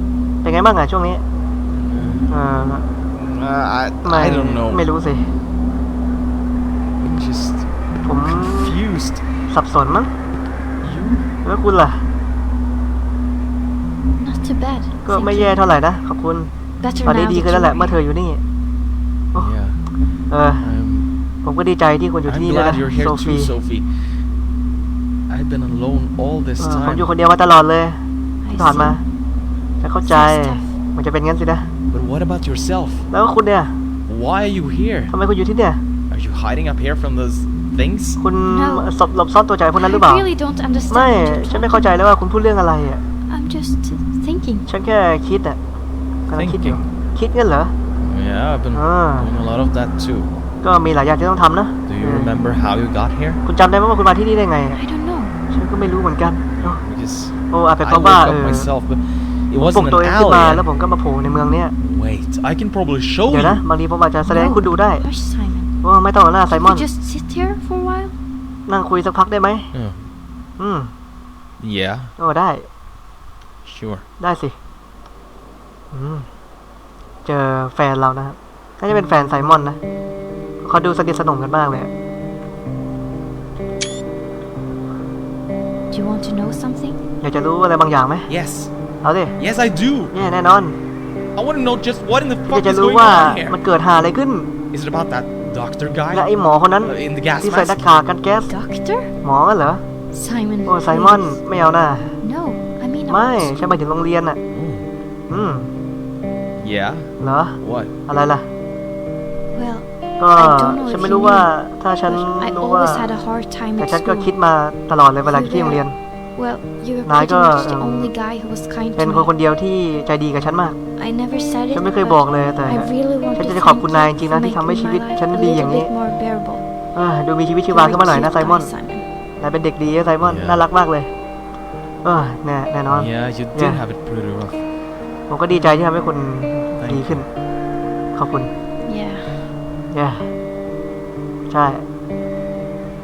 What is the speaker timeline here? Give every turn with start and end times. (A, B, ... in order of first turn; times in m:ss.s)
0:00.4-0:01.2 A
0:01.7-0:02.3 B
0:02.3-0:02.9 A
0:03.1-0:04.8 B
0:04.0-0:05.3 A
0:07.0-0:07.7 B
0:08.0-0:08.8 A
0:08.2-0:09.2 B
0:09.5-0:10.1 A
0:10.8-0:11.2 B
0:11.4-0:12.0 A
0:14.2-0:15.6 C
0:15.0-0:16.5 A
0:16.8-0:18.0 C
0:17.0-0:18.4 A
0:19.4-0:19.8 B
0:20.3-0:20.6 A
0:20.6-0:21.1 B
0:21.4-0:23.5 A
0:22.2-0:23.9 B
0:25.3-0:27.1 B
0:26.6-0:28.0 A
0:28.4-0:29.0 C
0:28.5-0:29.0 A
0:29.8-0:31.7 A
0:30.0-0:30.7 C
0:31.9-0:33.0 B
0:33.1-0:33.8 A
0:34.1-0:35.1 B
0:35.1-0:35.8 A
0:36.1-0:38.2 B
0:38.2-0:40.2 A
0:38.4-0:38.9 C
0:39.8-0:42.1 C
0:40.9-0:43.0 A
0:43.3-0:44.7 C
0:44.7-0:45.6 A
0:46.3-0:47.7 A
0:46.3-0:46.9 B
0:48.0-0:50.3 B
0:48.7-0:49.3 A
0:50.6-0:52.3 A
0:51.8-0:53.4 B
0:53.4-0:54.8 A
0:54.7-0:55.4 C
0:55.5-0:56.8 A
0:56.6-1:00.6 B
0:57.5-0:58.7 A
0:59.7-1:01.7 A
1:01.8-1:03.6 B
1:03.3-1:05.0 A
1:04.2-1:05.7 C
1:05.8-1:06.8 A
1:06.5-1:08.2 C
1:08.7-1:09.7 A
1:09.7-1:10.0 B
1:10.6-1:10.9 A
1:11.6-1:12.1 B
1:12.2-1:12.7 A
1:13.6-1:14.0 B
1:14.2-1:14.6 A
1:15.9-1:16.3 A
1:17.2-1:19.8 A
1:20.6-1:21.9 A
1:25.9-1:27.0 C
1:27.2-1:28.3 A
1:28.3-1:28.7 B
1:29.0-1:29.4 A
1:29.4-1:30.1 B
1:30.1-1:30.8 A
1:31.4-1:33.6 B
1:32.5-1:34.5 A
1:34.7-1:36.3 B
1:36.1-1:38.5 A
1:36.8-1:37.9 B
1:38.5-1:39.1 C
1:39.2-1:39.8 A
1:40.1-1:41.4 C
1:40.7-1:42.2 A
1:42.2-1:43.7 C
1:43.1-1:44.4 A
1:44.5-1:44.9 B
1:45.3-1:45.7 A
1:46.6-1:47.9 B
1:47.2-1:48.4 A
1:49.5-1:54.3 C
1:50.2-1:53.1 A
1:53.8-1:55.9 A
1:55.2-1:55.8 C
1:56.4-1:59.3 C
1:57.0-1:58.1 A
1:59.0-2:00.8 A
2:01.0-2:06.6 C
2:01.7-2:05.9 A
2:06.9-2:08.7 A
2:07.7-2:09.0 C
2:09.4-2:11.1 A
2:10.2-2:10.6 B
2:12.0-2:13.8 A
2:12.8-2:14.6 B
2:15.3-2:17.3 A
2:16.7-2:17.3 B
2:18.1-2:18.5 A
2:18.8-2:19.5 C
2:19.9-2:20.3 A
2:21.5-2:21.8 A